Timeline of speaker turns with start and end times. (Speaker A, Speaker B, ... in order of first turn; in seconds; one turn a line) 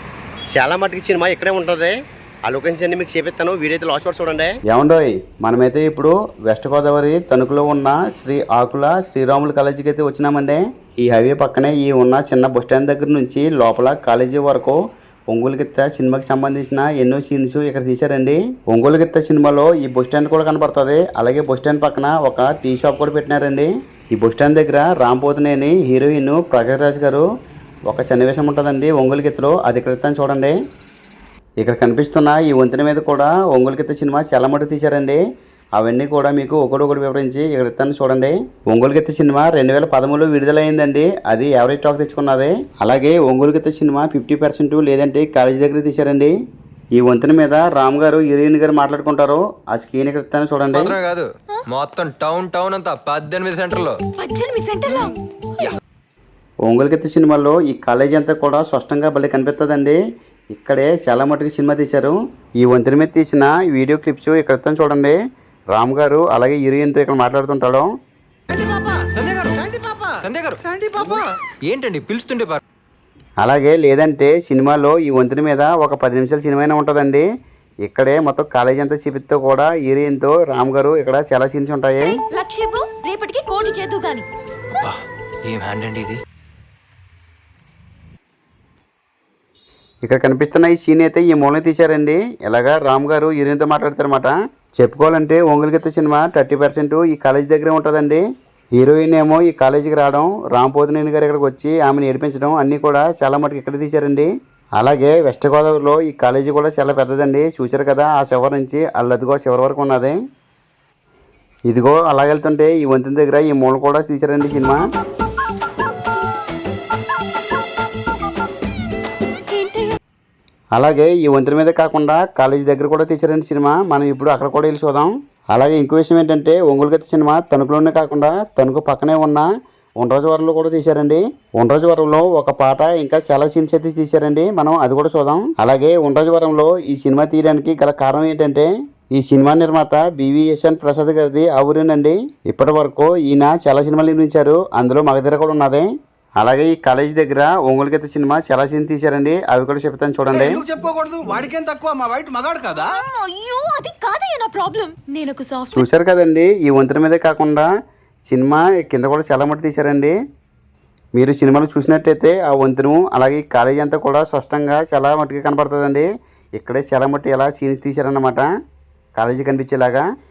Speaker A: 0.5-1.9
Speaker A: 2.4-4.5
Speaker B: 4.7-27.2
Speaker B: 27.9-30.6
Speaker B: 31.6-35.2
Speaker B: 35.8-46.3
Speaker B: 46.9-51.0
Speaker C: 50.7-54.0
Speaker D: 54.2-55.7
Speaker B: 56.6-60.0
Speaker B: 60.5-65.2
Speaker B: 65.7-67.9
Speaker C: 68.5-69.6
Speaker E: 68.5-71.3
Speaker C: 70.2-72.6
Speaker B: 73.4-77.2
Speaker B: 77.8-82.2
Speaker D: 82.0-84.3
Speaker C: 84.7-86.2
Speaker B: 90.0-98.2
Speaker B: 98.8-110.2
Speaker B: 111.7-114.8
Speaker D: 119.5-119.9
Speaker B: 120.7-129.5
Speaker B: 130.0-145.8
Speaker B: 146.4-150.6
Speaker E: 150.6-153.0
Speaker D: 152.7-155.8
Speaker B: 155.7-157.7
Speaker B: 158.3-160.1
Speaker B: 161.2-168.5
Speaker B: 169.2-170.0